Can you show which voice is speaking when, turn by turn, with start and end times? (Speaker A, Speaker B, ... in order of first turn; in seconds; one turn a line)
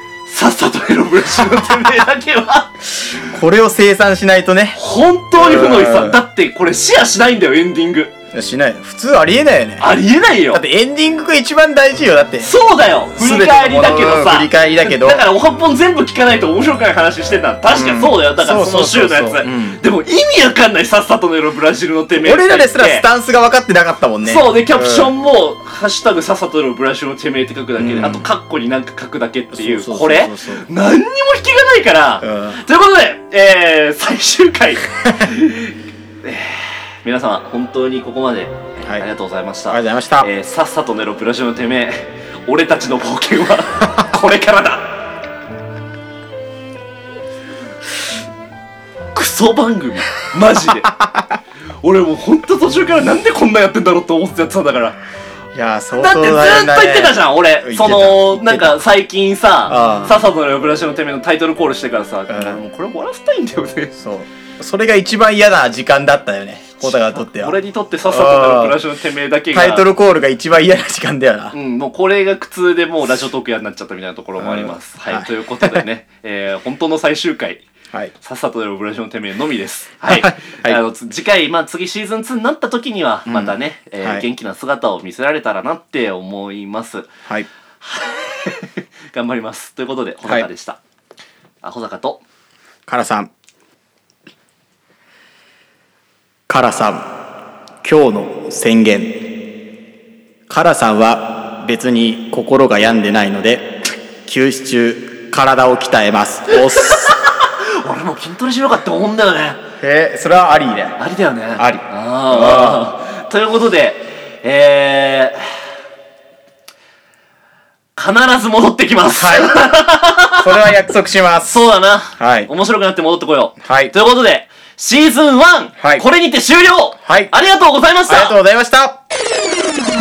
Speaker A: 0.3-3.3
Speaker B: 3.2-4.8
Speaker A: 4.7-8.1
Speaker B: 5.4-6.2
Speaker B: 8.3-9.9
Speaker A: 9.8-10.6
Speaker B: 10.5-12.5
Speaker A: 12.4-23.1
Speaker B: 13.2-15.2
Speaker B: 17.7-19.8
Speaker B: 22.1-25.1
Speaker A: 24.2-44.9
Speaker B: 27.8-28.2
Speaker B: 29.5-30.7
Speaker B: 32.2-32.6
Speaker B: 39.7-40.3
Speaker A: 49.1-50.9
Speaker B: 50.8-51.4
Speaker A: 51.8-55.0
Speaker B: 55.5-58.8
Speaker A: 56.0-63.9
Speaker B: 59.7-60.2
Speaker B: 62.3-62.6
Speaker B: 64.0-68.8
Speaker A: 66.8-69.9
Speaker B: 69.5-71.5
Speaker A: 71.5-77.7
Speaker B: 74.4-75.8
Speaker A: 78.2-87.1
Speaker B: 80.1-80.8
Speaker B: 83.3-84.2
Speaker A: 87.8-90.8
Speaker A: 91.6-92.2
Speaker B: 92.9-93.3
Speaker B: 96.5-97.1
Speaker B: 97.8-99.3
Speaker B: 100.5-107.1
Speaker A: 106.5-109.6
Speaker B: 109.8-111.0
Speaker A: 111.0-115.6
Speaker B: 111.6-112.9
Speaker A: 118.0-120.7
Speaker B: 119.1-119.7
Speaker B: 120.4-121.5
Speaker A: 121.5-128.4
Speaker B: 122.2-122.5
Speaker B: 123.6-123.9
Speaker B: 125.8-126.0
Speaker B: 127.1-127.3
Speaker B: 128.1-129.0